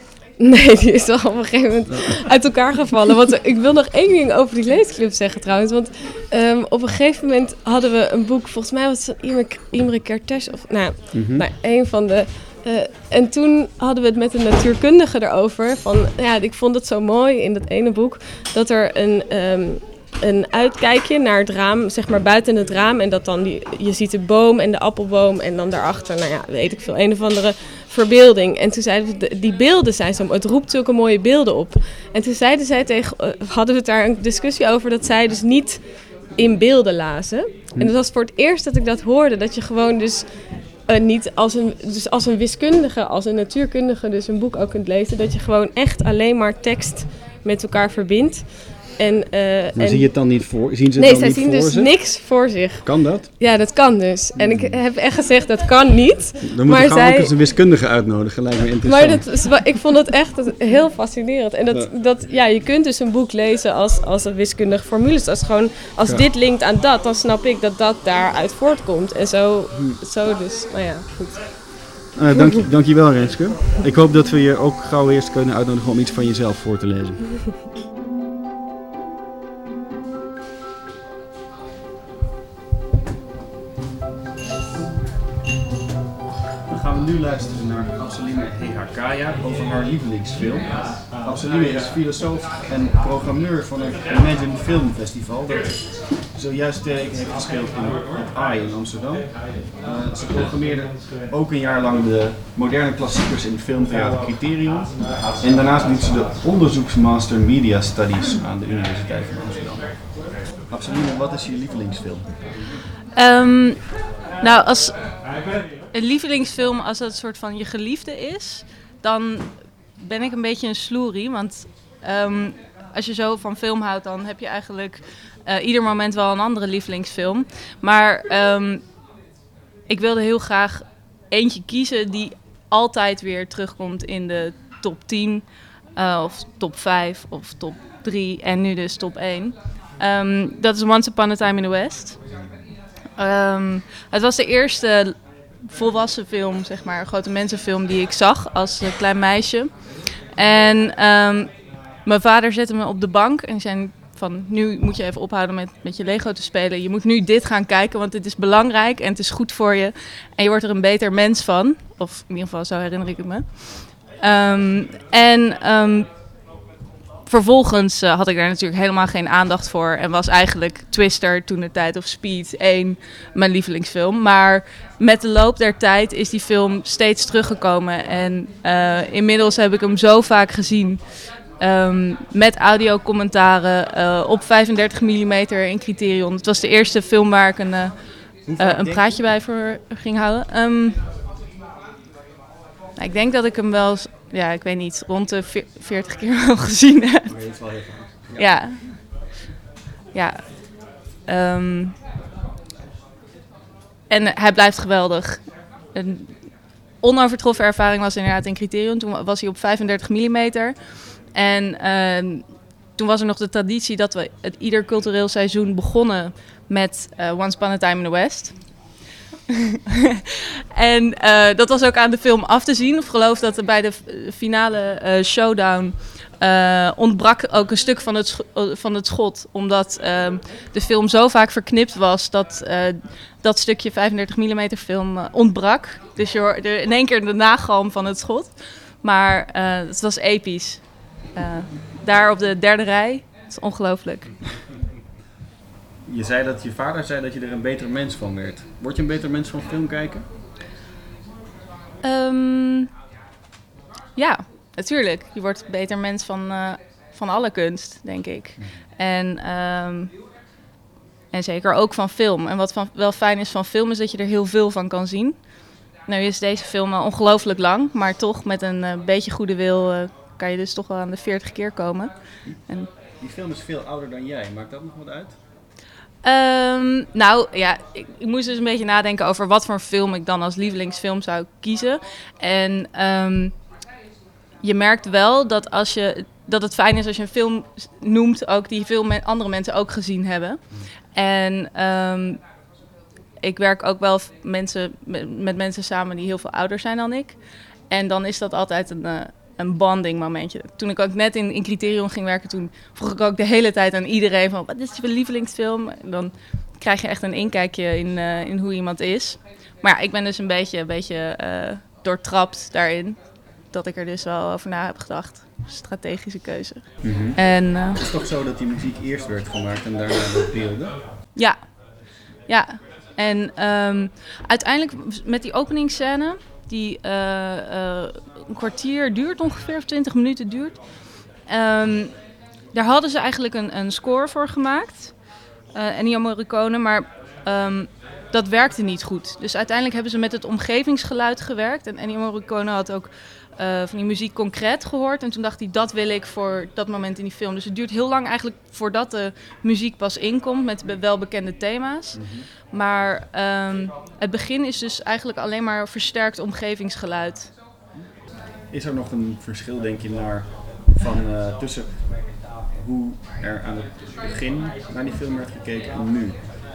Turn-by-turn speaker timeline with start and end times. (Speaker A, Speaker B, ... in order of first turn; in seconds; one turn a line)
Speaker A: 0.4-35.8
Speaker B: 1.9-2.2
Speaker B: 11.1-11.4
Speaker A: 36.4-40.3
Speaker A: 40.9-50.1
Speaker B: 49.7-51.9
Speaker A: 51.0-57.3
Speaker B: 52.8-53.3
Speaker B: 54.3-54.8
Speaker B: 56.4-59.3
Speaker A: 58.9-71.7
Speaker B: 69.7-70.0
Speaker B: 72.1-77.5
Speaker B: 86.7-112.4
Speaker C: 113.1-115.2
Speaker C: 115.9-128.8
Speaker C: 129.9-135.4
Speaker C: 135.9-142.2
Speaker C: 143.2-149.7
Speaker C: 150.3-166.1
Speaker C: 167.2-181.0
Speaker C: 181.6-187.9
Speaker B: 188.4-189.1
Speaker C: 188.6-191.0
Speaker C: 193.0-197.3
Speaker B: 197.2-198.6
Speaker C: 198.3-199.0
Speaker C: 200.1-200.7
Speaker C: 201.2-201.9
Speaker C: 204.1-206.3
Speaker C: 207.0-210.8
Speaker C: 211.3-218.9
Speaker C: 220.8-244.3
Speaker B: 246.1-250.2
Speaker C: 252.0-252.9
Speaker C: 254.2-260.1
Speaker B: 258.6-258.8
Speaker C: 261.3-272.1
Speaker B: 273.2-275.4
Speaker C: 276.2-283.6
Speaker C: 284.6-290.6
Speaker C: 291.1-292.4
Speaker C: 293.4-318.0
Speaker B: 317.0-317.4
Speaker B: 317.9-320.9
Speaker C: 322.5-332.1
Speaker C: 332.7-335.2
Speaker C: 335.7-357.5
Speaker B: 352.1-352.5
Speaker B: 358.7-366.4